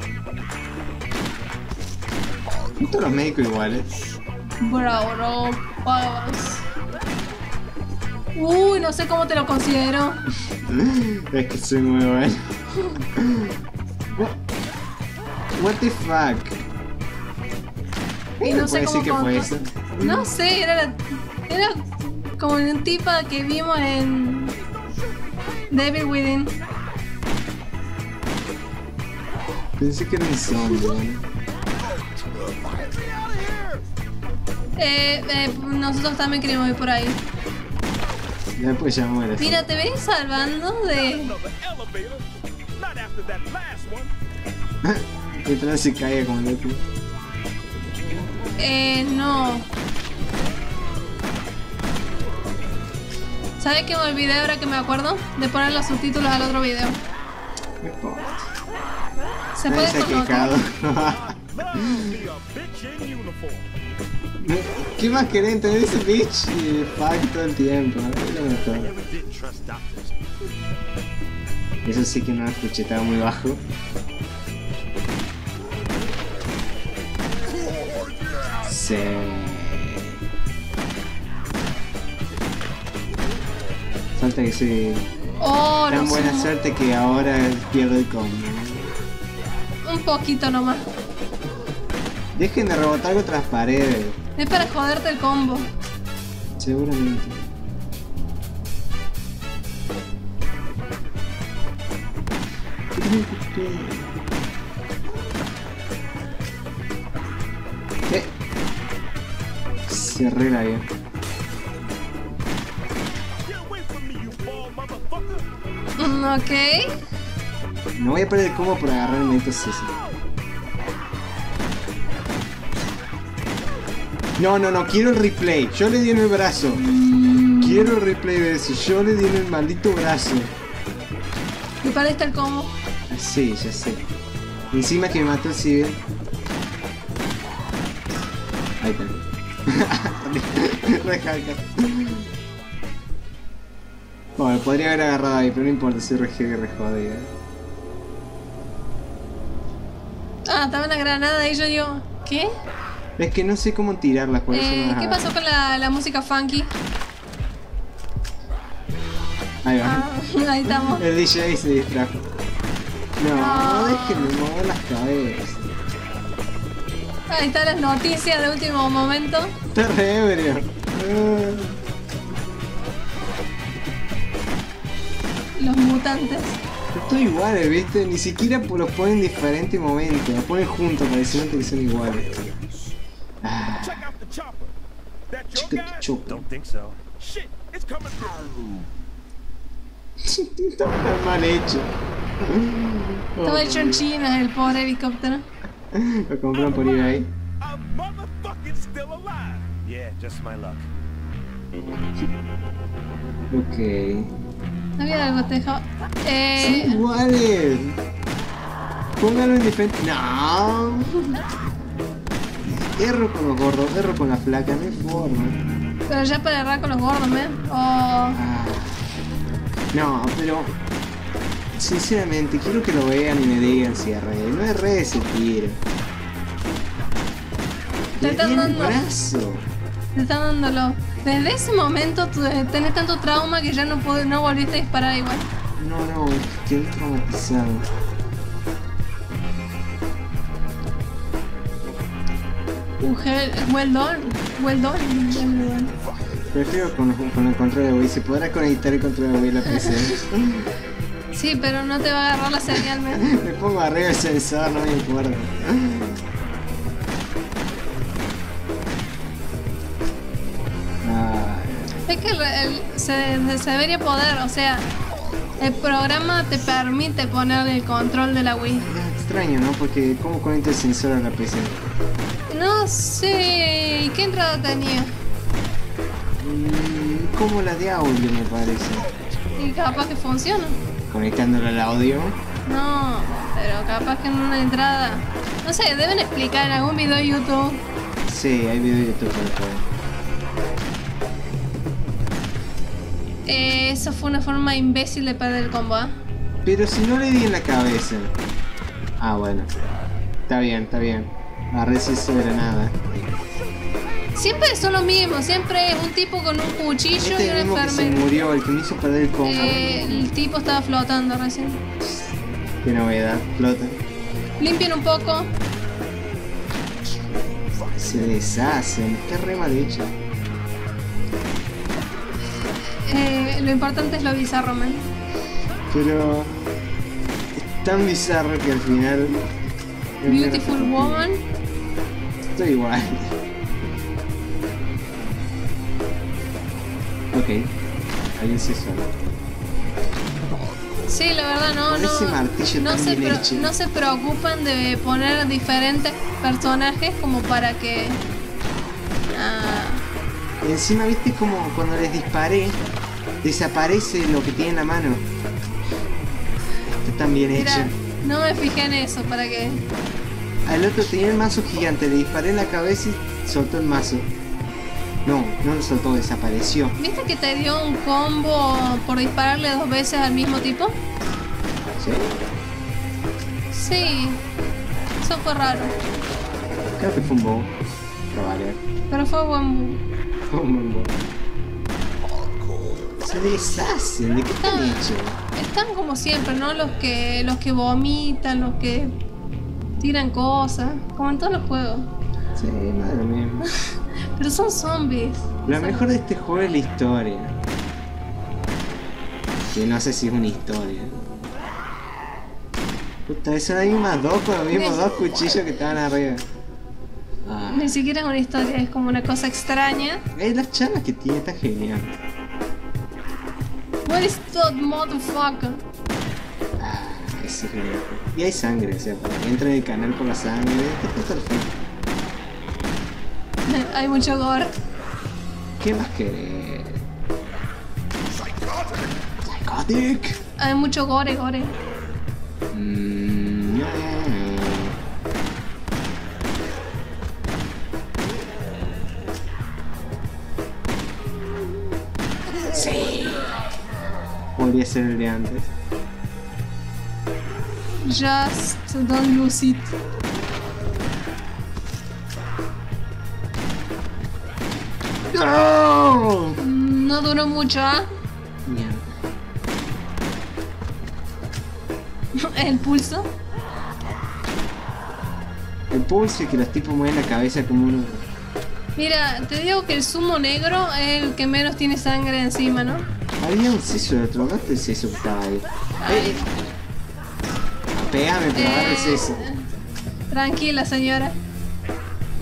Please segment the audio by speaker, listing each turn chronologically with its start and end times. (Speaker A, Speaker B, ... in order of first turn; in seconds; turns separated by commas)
Speaker A: 2.8-4.0, Speaker B: 4.6-6.6, Speaker B: 8.4-10.2, Speaker A: 10.7-12.4, Speaker A: 13.2-13.5, Speaker A: 15.6-16.6, Speaker A: 18.4-20.3, Speaker B: 18.4-24.6, Speaker B: 25.7-26.5, Speaker A: 29.8-31.2, Speaker C: 32.6-33.8, Speaker B: 34.8-37.2, Speaker A: 38.6-39.6, Speaker B: 39.4-41.3, Speaker C: 41.1-44.1, Speaker A: 44.8-46.8, Speaker B: 48.6-49.7, Speaker B: 53.6-57.0, Speaker A: 57.8-58.5, Speaker B: 59.6-60.6, Speaker A: 59.7-62.1, Speaker C: 61.0-63.7, Speaker A: 64.4-68.9, Speaker D: 68.7-70.1, Speaker A: 71.8-73.6, Speaker A: 78.6-80.2, Speaker A: 84.2-85.1, Speaker B: 85.4-86.5, Speaker A: 85.9-89.0, Speaker B: 89.8-90.9, Speaker A: 92.3-94.2, Speaker B: 94.4-95.7, Speaker A: 96.6-97.4, Speaker A: 103.0-104.2, Speaker A: 109.9-110.9, Speaker C: 113.4-115.5, Speaker B: 116.0-116.9, Speaker A: 118.0-120.0, Speaker A: 124.4-126.8, Speaker B: 126.8-128.0, Speaker A: 127.6-130.5, Speaker B: 131.8-132.7, Speaker A: 133.1-134.1, Speaker A: 134.7-136.0, Speaker A: 138.8-142.2, Speaker A: 144.4-147.3, Speaker B: 150.5-152.5, Speaker A: 153.2-155.3, Speaker B: 154.5-156.7, Speaker A: 159.6-160.1, Speaker B: 159.8-161.1, Speaker A: 160.7-162.2, Speaker A: 163.2-165.8, Speaker B: 163.3-164.3, Speaker B: 167.3-169.5, Speaker A: 169.7-171.8, Speaker B: 175.6-176.6, Speaker A: 176.9-182.3, Speaker D: 182.1-183.0, Speaker A: 183.4-184.1, Speaker C: 183.8-184.8, Speaker C: 185.3-186.1, Speaker A: 185.6-186.4, Speaker D: 186.2-187.0, Speaker C: 187.1-188.8, Speaker A: 190.2-191.9, Speaker A: 192.4-194.1, Speaker B: 193.4-195.4, Speaker A: 195.9-197.3, Speaker C: 196.5-199.7, Speaker D: 199.8-200.9, Speaker A: 203.5-204.3, Speaker B: 205.0-207.0, Speaker A: 206.6-208.0, Speaker A: 209.2-211.2, Speaker A: 212.7-215.6, Speaker B: 216.1-218.4, Speaker A: 218.3-219.0, Speaker A: 219.9-220.8, Speaker A: 221.7-225.8, Speaker A: 228.2-229.7, Speaker B: 228.2-229.0, Speaker B: 230.1-235.5, Speaker A: 235.8-237.9, Speaker B: 243.0-245.9, Speaker A: 246.5-250.7, Speaker B: 249.7-250.1, Speaker B: 251.3-253.2, Speaker A: 252.7-256.2, Speaker A: 261.0-261.9, Speaker B: 262.1-264.9, Speaker B: 265.6-268.9, Speaker A: 268.8-271.9, Speaker B: 272.5-275.1, Speaker A: 276.4-279.1, Speaker B: 279.6-280.8, Speaker A: 281.1-282.4, Speaker B: 282.7-287.8, Speaker A: 288.3-289.9, Speaker B: 293.5-296.2, Speaker A: 296.6-298.3, Speaker A: 299.2-299.7, Speaker A: 300.5-302.9, Speaker B: 304.4-308.3, Speaker A: 307.2-310.3, Speaker B: 309.4-311.8, Speaker A: 312.8-314.0, Speaker B: 314.6-315.5, Speaker A: 317.9-320.2, Speaker B: 322.9-325.1, Speaker A: 325.9-326.6, Speaker A: 327.6-329.4, Speaker A: 330.2-331.3, Speaker B: 330.3-331.4, Speaker A: 332.5-333.4, Speaker A: 337.3-337.7, Speaker A: 338.4-339.1, Speaker B: 341.1-348.2, Speaker A: 341.9-343.7, Speaker B: 349.3-350.0, Speaker A: 350.6-352.8, Speaker A: 353.4-355.3, Speaker A: 356.8-357.9, Speaker B: 357.5-359.8, Speaker A: 360.7-364.3, Speaker A: 365.2-367.0, Speaker B: 367.0-371.0, Speaker A: 372.0-372.4, Speaker B: 373.7-374.4, Speaker B: 375.2-376.0, Speaker A: 377.0-377.8, Speaker A: 378.3-378.8, Speaker B: 379.1-380.0, Speaker A: 380.5-381.1, Speaker A: 383.2-385.4, Speaker B: 384.6-389.2, Speaker B: 390.0-392.1, Speaker A: 392.6-393.7, Speaker B: 394.4-396.1, Speaker A: 395.6-397.6, Speaker A: 399.7-401.2, Speaker A: 403.3-406.5, Speaker B: 404.7-405.2, Speaker A: 407.4-408.0, Speaker B: 407.7-410.2, Speaker A: 410.4-412.2, Speaker B: 414.1-415.8, Speaker A: 416.8-421.8, Speaker B: 423.7-424.8, Speaker A: 425.8-427.1, Speaker A: 429.4-430.4, Speaker B: 430.6-431.8, Speaker A: 432.7-435.0, Speaker A: 442.7-443.6, Speaker A: 444.6-445.7, Speaker B: 448.0-449.9, Speaker A: 455.3-456.6, Speaker B: 456.6-458.1, Speaker A: 458.7-459.0, Speaker B: 462.4-463.3, Speaker A: 465.9-468.3, Speaker B: 469.0-473.0, Speaker A: 473.4-476.7, Speaker B: 476.0-476.5, Speaker A: 477.9-479.5, Speaker B: 478.6-479.7, Speaker B: 480.3-481.4